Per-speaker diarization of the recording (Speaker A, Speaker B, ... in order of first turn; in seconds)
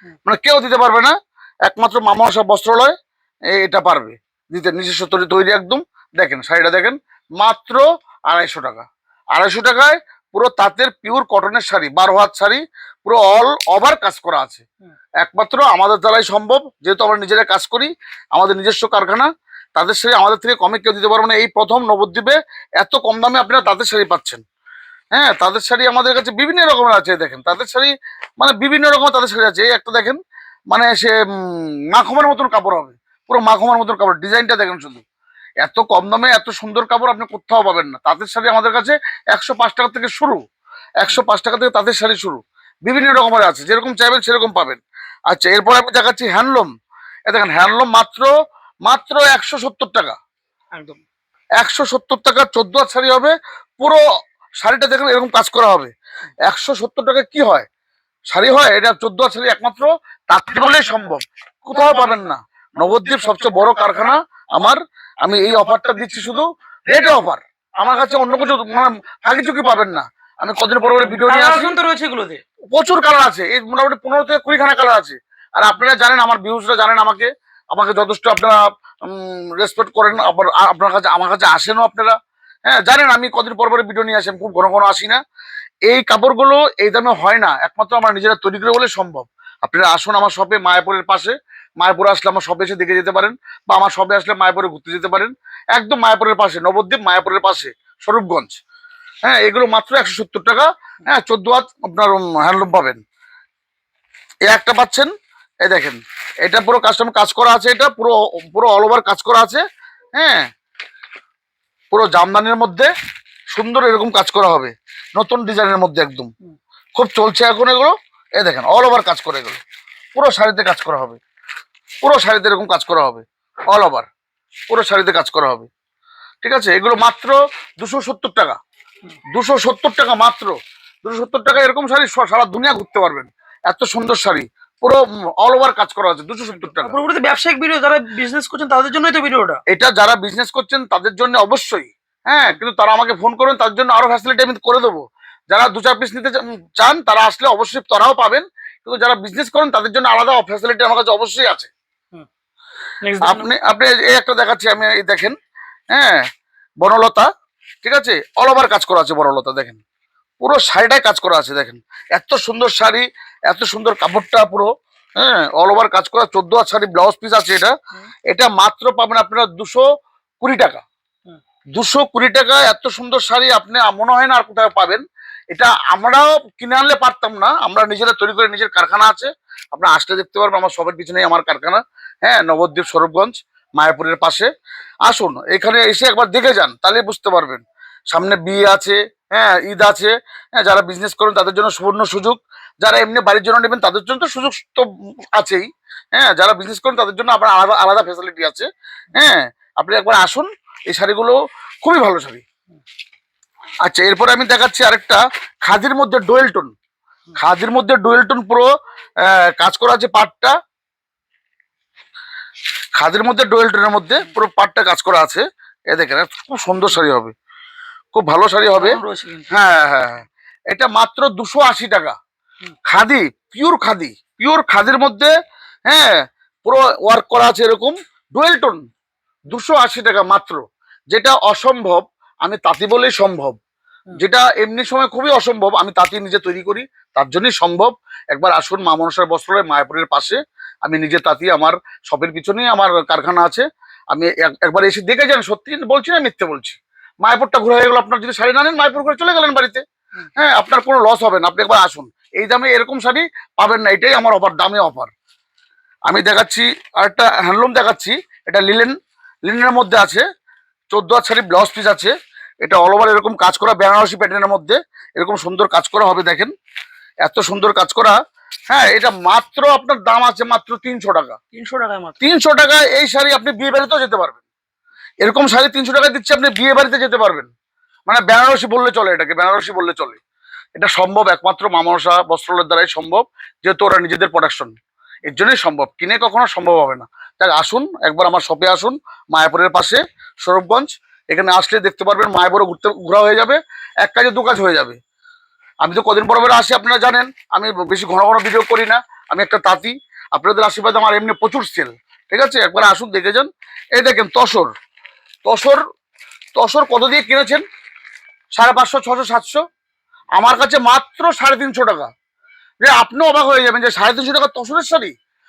Speaker A: 0.2-2.9, 3.5-14.6, 15.2-24.4, 25.1-30.2, 30.7-35.0, 35.6-40.4, 41.0-46.7, 47.3-48.3, 48.9-50.1, 51.6-54.0, 54.6-55.9, 56.4-57.7, 58.3-71.7, 72.7-85.2, 85.8-98.6, 99.2-103.0, 104.5-105.1, 105.6-109.6, 110.2-110.5, 111.9-112.9, 113.5-116.3, 117.0-119.6, 120.1-121.2, 122.0-124.1, 124.7-125.7, 126.4-128.6, 129.3-136.9, 139.7-151.7, 153.2-155.3, 155.9-156.2, 156.8-157.3, 157.8-159.8, 160.4-167.7, 168.3-169.8, 170.4-170.8, 171.8-184.5, 185.1-202.4, 203.8-206.7, 207.3-208.7, 209.2-210.5, 212.9-217.3, 218.1-219.0, 219.5-222.2, 222.8-225.3, 225.9-228.8, 229.5-233.6, 234.1-249.8, 250.4-255.1, 256.1-258.9, 259.5-260.2, 260.9-266.5, 267.2-268.2, 268.7-271.4, 272.2-274.4, 275.2-277.5, 278.1-280.2, 280.8-284.7, 285.2-295.0, 295.8-304.7, 305.4-305.8, 306.5-307.6, 308.5-309.6, 310.4-312.1, 312.8-315.1
Speaker B: 50.7-51.0, 61.8-62.3, 71.0-72.4, 136.6-139.6, 153.0-153.5, 218.7-219.6, 271.5-272.2